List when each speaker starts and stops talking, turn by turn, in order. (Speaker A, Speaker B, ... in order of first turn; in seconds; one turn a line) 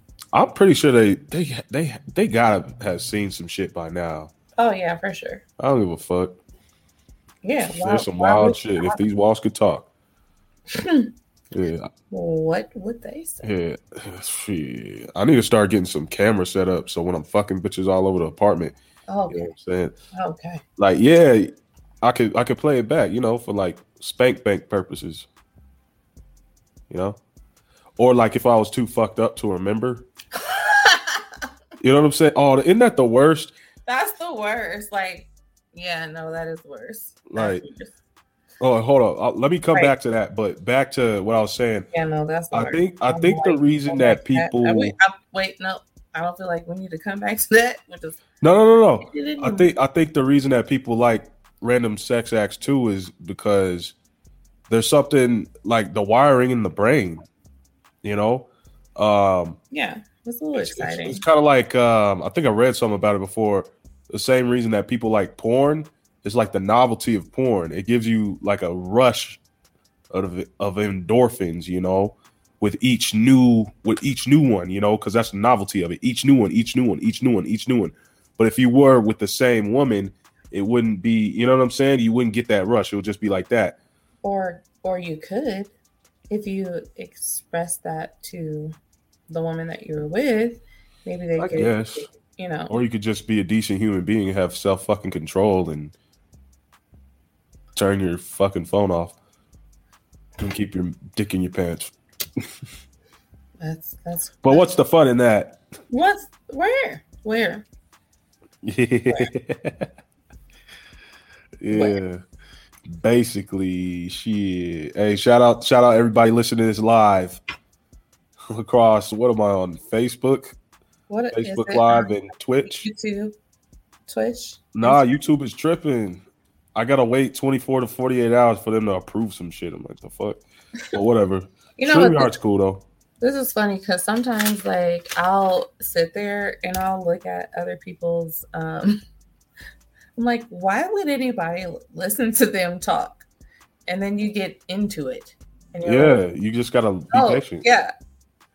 Speaker A: 0.3-4.3
Speaker B: 4.6-5.4
Speaker A: 5.6-6.4
Speaker B: 7.4-9.0
Speaker A: 7.7-9.9
Speaker B: 10.8-11.1
Speaker A: 11.5-11.9
Speaker B: 12.1-13.5
Speaker A: 13.4-18.8
Speaker B: 19.1-19.5
Speaker A: 19.3-19.9
Speaker B: 20.1-20.6
Speaker A: 20.8-25.3
Speaker A: 26.9-27.2
Speaker A: 28.0-30.1
Speaker B: 30.4-31.2
Speaker A: 31.8-33.5
Speaker B: 33.9-38.0
Speaker A: 37.3-37.6
Speaker A: 38.6-41.9
Speaker B: 41.9-48.2
Speaker A: 42.5-44.9
Speaker A: 48.4-54.0
Speaker B: 49.0-49.7
Speaker A: 54.7-57.3
Speaker A: 58.0-59.6
Speaker B: 59.7-61.2
Speaker A: 60.5-69.4
Speaker A: 70.1-83.8
Speaker B: 84.2-85.7
Speaker B: 86.3-88.8
Speaker B: 89.3-92.7
Speaker A: 91.4-92.1
Speaker A: 92.7-96.0
Speaker A: 97.8-99.2
Speaker A: 100.4-102.4
Speaker B: 103.6-104.7
Speaker A: 104.4-105.6
Speaker B: 105.9-107.7
Speaker A: 108.6-109.9
Speaker A: 111.6-112.2
Speaker B: 111.7-112.0
Speaker A: 112.9-117.4
Speaker A: 118.5-120.5
Speaker B: 121.1-122.1
Speaker A: 121.3-122.8
Speaker B: 122.6-123.4
Speaker B: 124.1-125.2
Speaker A: 124.7-126.2
Speaker A: 126.8-132.8
Speaker B: 131.8-132.3
Speaker B: 133.2-139.0
Speaker B: 140.2-143.3
Speaker B: 143.9-146.2
Speaker A: 145.8-147.7
Speaker B: 147.1-147.9